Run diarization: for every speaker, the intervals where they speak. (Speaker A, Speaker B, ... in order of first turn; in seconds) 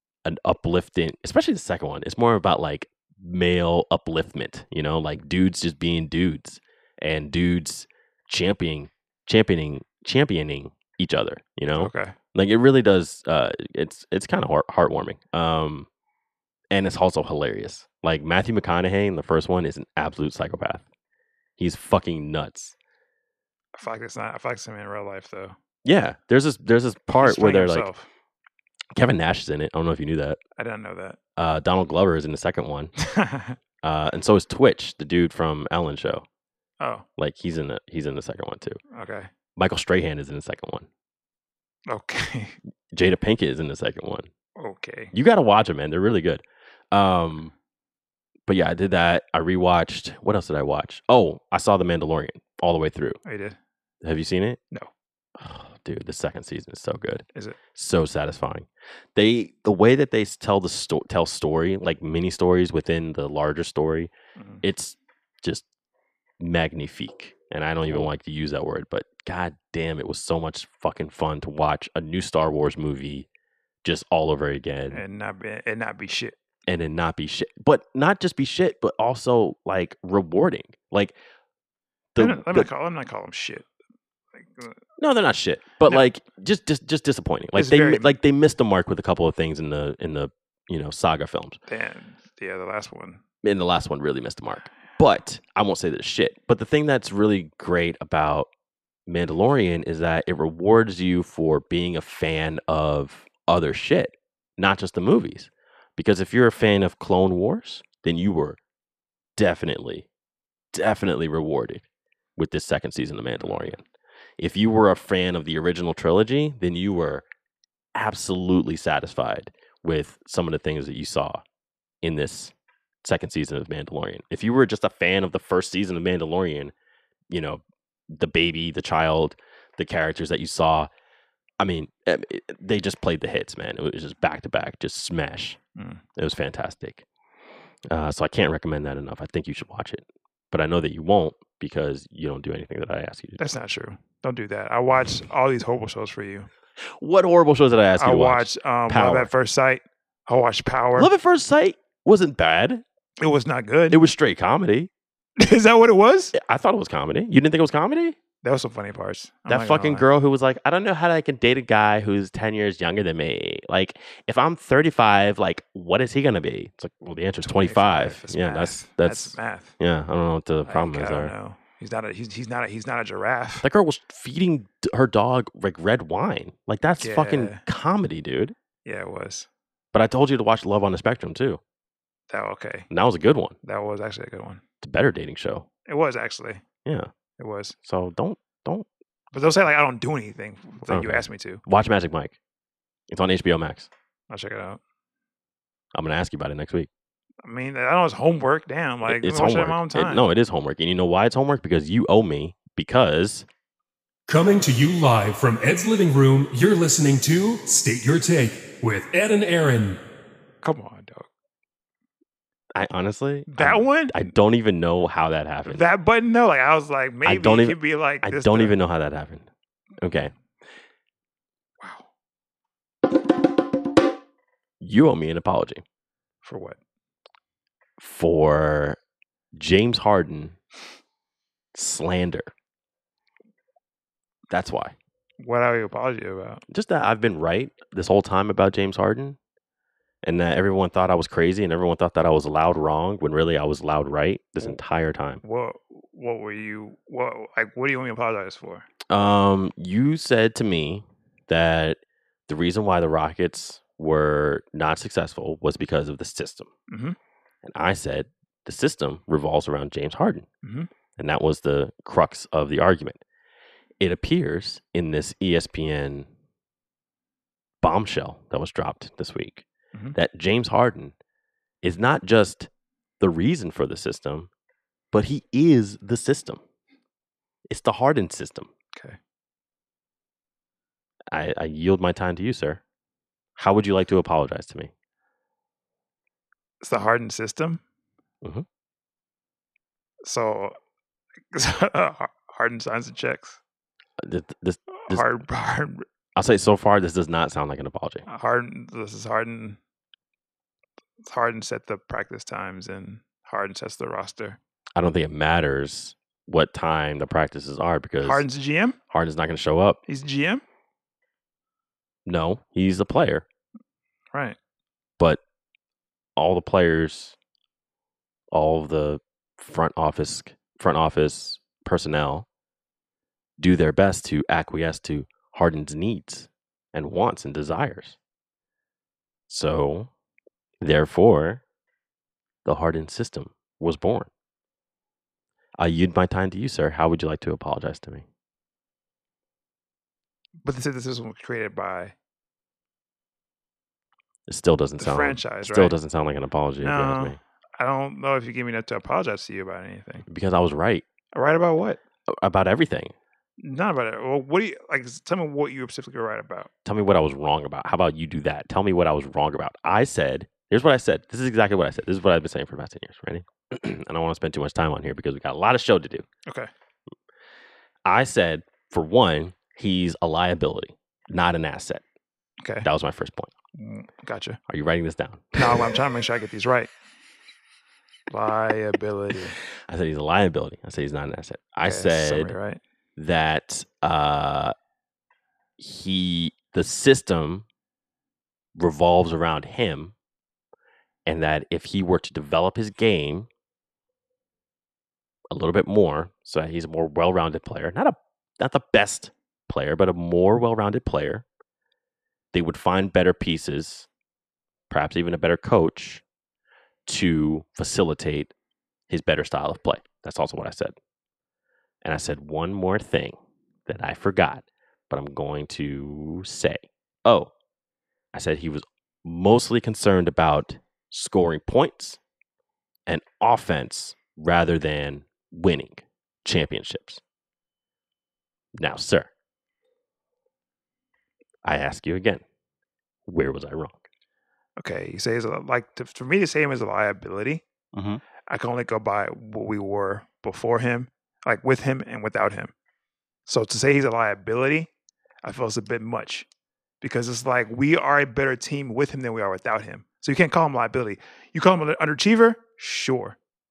Speaker A: 0.2-15.9, 16.7-20.9, 21.6-22.8, 25.8-27.9, 28.9-30.4, 31.4-32.9, 33.8-36.3, 37.2-38.8, 39.6-40.9, 42.9-44.3, 45.1-47.5, 48.5-53.2, 54.0-54.6, 55.4-65.7, 66.4-73.3, 73.8-75.0, 76.7-81.2, 82.2-82.7, 85.0-91.6, 93.4-98.5, 99.1-108.6, 109.4-110.1, 110.7-111.8, 112.4-113.8, 114.4-117.3, 118.0-121.4, 122.0-126.7, 127.3-130.9, 131.6-135.6, 136.2-137.0, 137.9-143.4, 146.8-149.3, 150.9-152.8, 153.9-154.9, 156.3-158.2, 159.5-171.3, 173.6-178.6, 179.9-181.6, 182.9-183.6, 184.8-185.7, 186.8-187.1, 187.8-188.9, 190.8-192.4, 193.1-193.9, 195.9-196.9, 199.1-203.5, 212.8-215.9, 217.2-219.5, 220.0-220.3, 224.8-225.8, 228.0-229.0, 229.6-230.6, 231.7-232.5, 234.5-235.0, 236.7-239.4, 240.2-245.4, 249.1-256.7, 257.6-260.5, 261.2-263.2, 264.0-266.3, 267.8-271.1, 271.8-272.7, 273.2-274.5, 275.1-276.6, 277.7-278.7, 281.3-282.8, 283.6-284.9, 294.2-295.3, 296.4-298.2, 304.9-308.5, 309.1-310.0, 312.3-313.4, 316.4-317.4, 318.5-322.5, 323.6-328.2, 329.5-330.1, 330.8-331.6, 332.6-334.3, 335.8-338.3, 344.5-347.4, 350.3-351.1, 352.3-353.1, 356.9-366.3, 368.1-372.0, 372.8-373.5, 374.7-375.9, 379.7-382.6, 383.2-384.8, 385.8-387.6, 388.8-390.1, 391.3-393.5, 395.5-401.4, 402.5-404.1, 404.9-406.2, 407.1-408.5, 409.1-410.9, 412.0-413.4, 413.9-417.5, 418.3-422.2, 423.1-427.2, 428.8-429.3, 431.6-432.4, 433.3-434.0, 437.9-438.2
Speaker B: 11.8-12.2, 23.8-25.6, 27.2-28.1, 30.6-31.2, 33.1-33.6, 36.8-37.0, 38.9-39.3, 41.9-42.6, 44.6-45.1, 53.2-53.6, 64.4-64.6, 74.9-76.3, 82.2-83.7, 84.4-84.8, 87.5-88.1, 91.7-93.2, 113.4-113.8, 135.8-136.0, 143.4-146.5, 148.0-151.1, 153.2-154.0, 155.4-156.3, 158.4-160.1, 167.4-169.8, 170.7-173.7, 177.0-177.6, 178.8-179.5, 182.3-182.9, 183.6-184.6, 185.9-186.6, 187.4-187.8, 189.3-191.6, 194.3-194.8, 197.4-200.3, 210.6-211.3, 213.5-214.3, 215.7-218.8, 221.8-222.1, 226.4-226.8, 235.4-236.6, 245.4-248.9, 256.9-257.2, 260.6-260.9, 286.8-287.8, 290.2-290.8, 291.5-293.6, 294.9-296.1, 298.3-299.8, 301.2-304.6, 308.2-309.0, 310.1-310.6, 340.6-342.1, 345.0-346.0, 346.8-350.3, 351.3-352.0, 353.6-356.7, 372.6-372.9, 373.7-374.6, 375.6-376.9, 378.3-379.6, 381.8-382.8, 434.8-437.6, 438.5-442.7, 443.5-444.9, 445.4-446.5, 447.0-453.4
Speaker C: 204.3-210.0